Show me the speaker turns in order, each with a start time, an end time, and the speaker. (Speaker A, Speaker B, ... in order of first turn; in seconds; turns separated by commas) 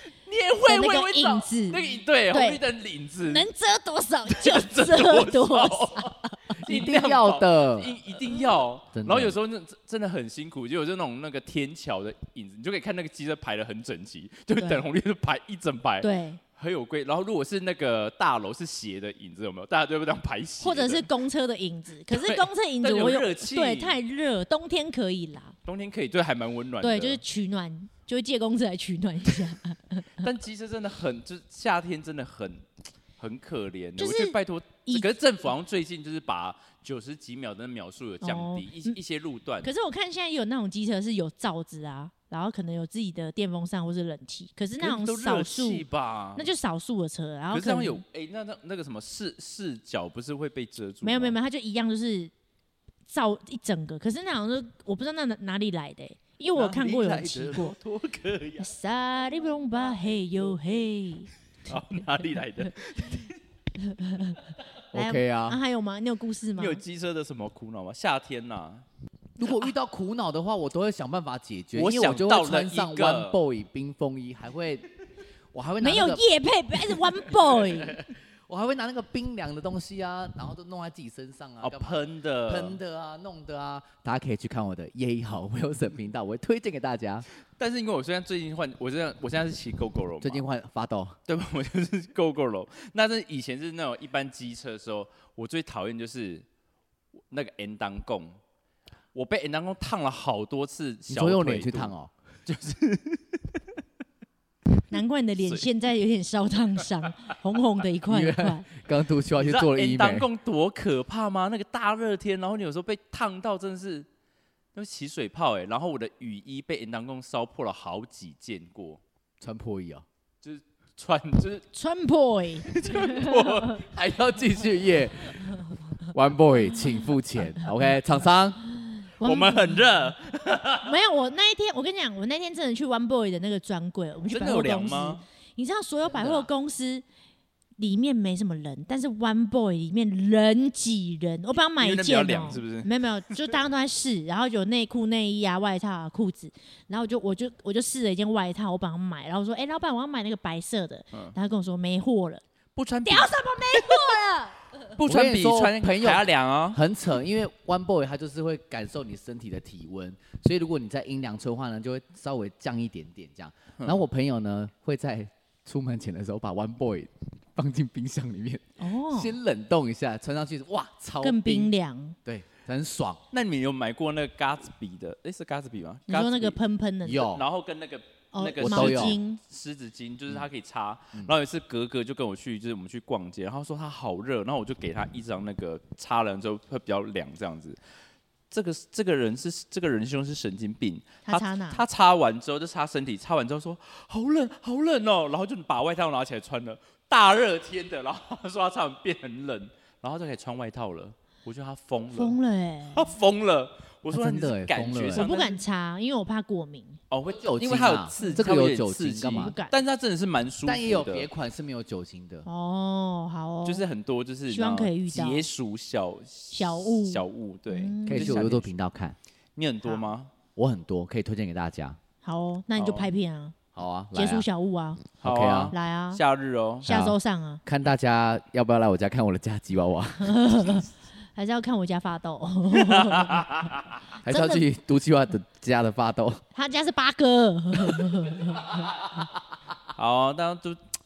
Speaker A: 0.2-3.5, Speaker B: 0.6-2.6, Speaker B: 3.2-6.6, Speaker A: 4.3-21.1, Speaker C: 6.6-7.9, Speaker C: 8.9-9.4, Speaker B: 14.5-14.9, Speaker B: 16.0-16.4, Speaker B: 20.6-25.6, Speaker A: 22.1-24.0, Speaker A: 25.6-27.2, Speaker B: 26.8-30.2, Speaker A: 30.2-32.6, Speaker A: 33.2-39.7, Speaker B: 34.0-35.1, Speaker B: 38.2-39.0, Speaker B: 39.6-48.0, Speaker A: 44.8-46.5, Speaker A: 47.5-51.4, Speaker B: 51.0-52.3, Speaker B: 53.1-57.7, Speaker A: 56.5-58.7, Speaker C: 56.8-57.6, Speaker B: 58.6-61.3, Speaker A: 61.6-63.4, Speaker B: 63.8-64.4, Speaker C: 64.9-65.6, Speaker B: 64.9-66.8, Speaker A: 66.5-68.8, Speaker C: 69.4-74.8, Speaker A: 71.7-73.4, Speaker C: 75.5-76.2, Speaker B: 75.8-78.0, Speaker C: 77.9-87.2, Speaker A: 81.6-82.8, Speaker A: 87.6-90.5, Speaker C: 90.2-91.2, Speaker A: 91.3-96.4, Speaker A: 97.3-98.3, Speaker A: 99.1-101.9, Speaker C: 101.1-102.1, Speaker A: 102.5-103.6, Speaker B: 104.9-108.7, Speaker A: 105.4-105.7, Speaker C: 108.1-110.3, Speaker A: 109.3-114.1, Speaker A: 114.7-119.0, Speaker C: 119.4-120.0, Speaker A: 120.4-121.7, Speaker B: 121.7-123.2, Speaker A: 122.7-123.8, Speaker C: 123.8-128.6, Speaker B: 129.2-129.8, Speaker A: 129.2-130.9, Speaker B: 130.8-137.0, Speaker A: 134.3-135.2, Speaker A: 136.1-136.5, Speaker B: 137.8-152.4, Speaker A: 141.8-143.5, Speaker A: 152.8-154.2, Speaker B: 153.0-154.7, Speaker A: 154.9-156.8, Speaker C: 155.0-171.7, Speaker B: 168.8-169.3, Speaker B: 171.2-172.2, Speaker C: 172.2-173.2, Speaker A: 173.3-176.6, Speaker B: 176.1-177.3, Speaker C: 177.0-177.4, Speaker A: 177.1-187.8, Speaker B: 178.3-179.4, Speaker C: 178.6-179.2, Speaker A: 188.5-202.4, Speaker B: 191.2-191.8, Speaker B: 202.1-203.1, Speaker A: 202.9-205.6, Speaker C: 204.1-205.2, Speaker B: 205.1-207.0, Speaker A: 207.1-211.3, Speaker C: 207.3-209.5, Speaker B: 208.2-208.5, Speaker B: 209.4-209.7, Speaker C: 210.6-212.5, Speaker B: 212.4-213.9, Speaker A: 213.6-218.7, Speaker B: 214.5-215.5, Speaker B: 216.5-218.4, Speaker C: 218.1-219.2, Speaker A: 219.6-220.3, Speaker C: 220.6-222.0, Speaker B: 222.2-223.6, Speaker A: 222.8-223.1, Speaker C: 223.7-224.5, Speaker B: 224.1-225.1, Speaker C: 225.2-225.7, Speaker A: 225.2-226.9, Speaker B: 225.7-226.2, Speaker B: 226.8-227.6, Speaker C: 226.8-230.4, Speaker B: 230.2-233.4, Speaker A: 232.7-233.8, Speaker B: 234.2-234.7, Speaker C: 234.2-236.4, Speaker B: 236.5-239.0, Speaker A: 239.9-240.8